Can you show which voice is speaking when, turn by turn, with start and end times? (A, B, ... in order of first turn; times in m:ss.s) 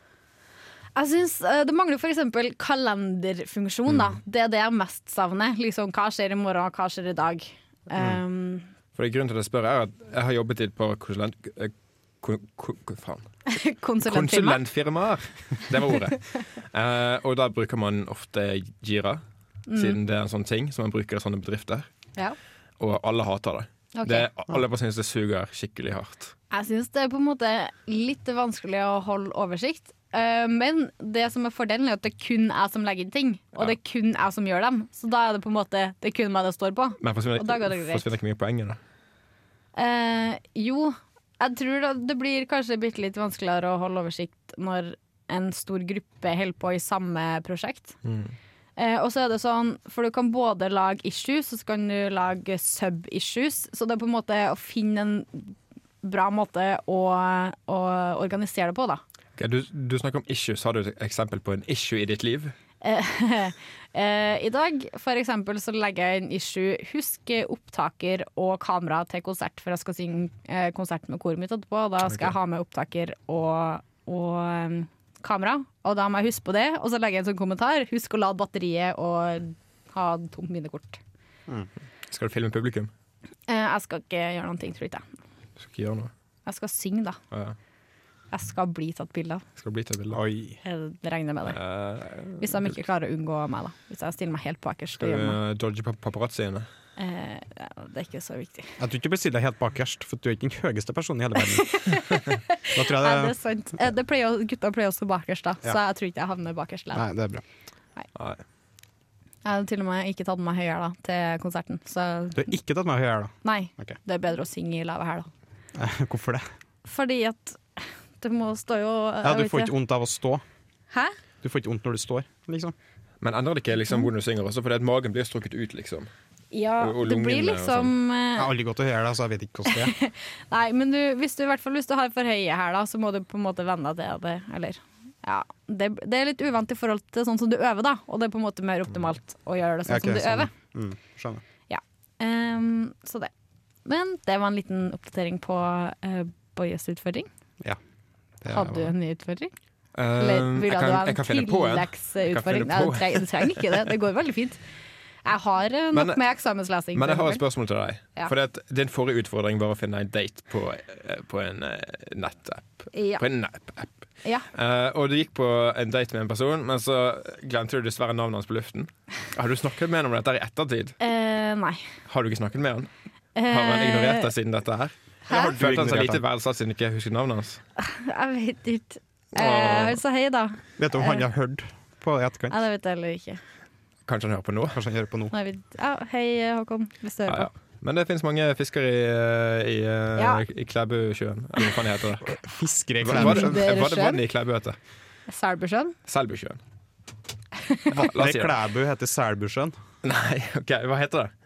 0:01.0-0:08.7 A
0:08.0-0:08.2 B
0:08.9-0:13.3 C
0:13.5-0:14.6 A
0:14.0-0:19.2 C
0:19.7-0:20.0 A
0:19.8-0:21.9 C
0:22.8-0:26.3 C
0:23.9-0:24.3 A
0:26.5-0:38.0 A
0:37.0-0:38.8 C
0:39.8-0:48.0 A
0:48.0-0:48.3 C
0:48.8-0:59.0 A
0:59.4-1:02.5 C
1:02.8-1:21.0 A
1:12.0-1:12.3 C
1:22.1-1:22.9 C
1:23.5-1:25.0 A
1:25.6-1:26.1 C
1:26.4-1:27.2 A
1:28.3-1:29.4 A
1:29.6-1:30.2 C
1:30.1-1:30.6 B
1:30.6-1:31.6 A
1:31.5-1:32.8 C
1:32.4-1:35.4 A
1:35.0-1:36.7 C
1:37.0-1:38.7 A
1:38.8-1:42.0 B
1:41.4-1:47.0 A
1:42.7-1:43.4 B
1:46.9-1:47.4 B
1:48.1-1:48.4 C
1:49.4-1:52.5 A
1:52.3-1:54.0 B
1:53.4-1:55.3 A
1:55.7-1:56.4 B
1:56.8-1:59.7 A
1:59.2-2:00.4 B
2:01.4-2:02.7 B
2:03.2-2:06.1 C
2:06.5-2:08.5 A
2:06.8-2:07.9 C
2:08.4-2:09.9 B
2:09.7-2:20.5 A
2:19.9-2:21.4 B
2:21.7-2:23.3 A
2:23.8-2:27.3 A
2:28.4-2:28.8 B
2:28.5-2:29.5 A
2:29.9-2:33.9 C
2:30.2-2:34.6 A
2:35.2-2:37.4 A
2:35.9-2:36.2 C
2:36.9-2:43.9 C
2:42.9-2:43.2 A
2:44.5-2:50.9 C
2:51.0-2:51.9 A
2:52.1-2:52.9 C
2:53.4-2:54.3 A
2:53.5-2:57.6 C
2:55.3-2:56.2 B
2:55.3-2:55.5 A
2:57.8-3:01.2 A
2:59.4-3:00.0 C
3:00.8-3:02.6 B
3:02.5-3:03.4 A
3:04.0-3:04.8 C
3:04.7-3:05.3 B
3:05.3-3:07.5 A
3:07.3-3:12.4 C
3:10.2-3:10.4 A
3:12.3-3:13.6 B
3:13.0-3:14.8 C
3:13.1-3:14.2 A
3:15.3-3:15.9 A
3:16.1-3:16.6 C
3:17.6-3:17.9 A
3:17.9-3:19.7 B
3:18.0-3:18.5 C
3:20.0-3:21.3 C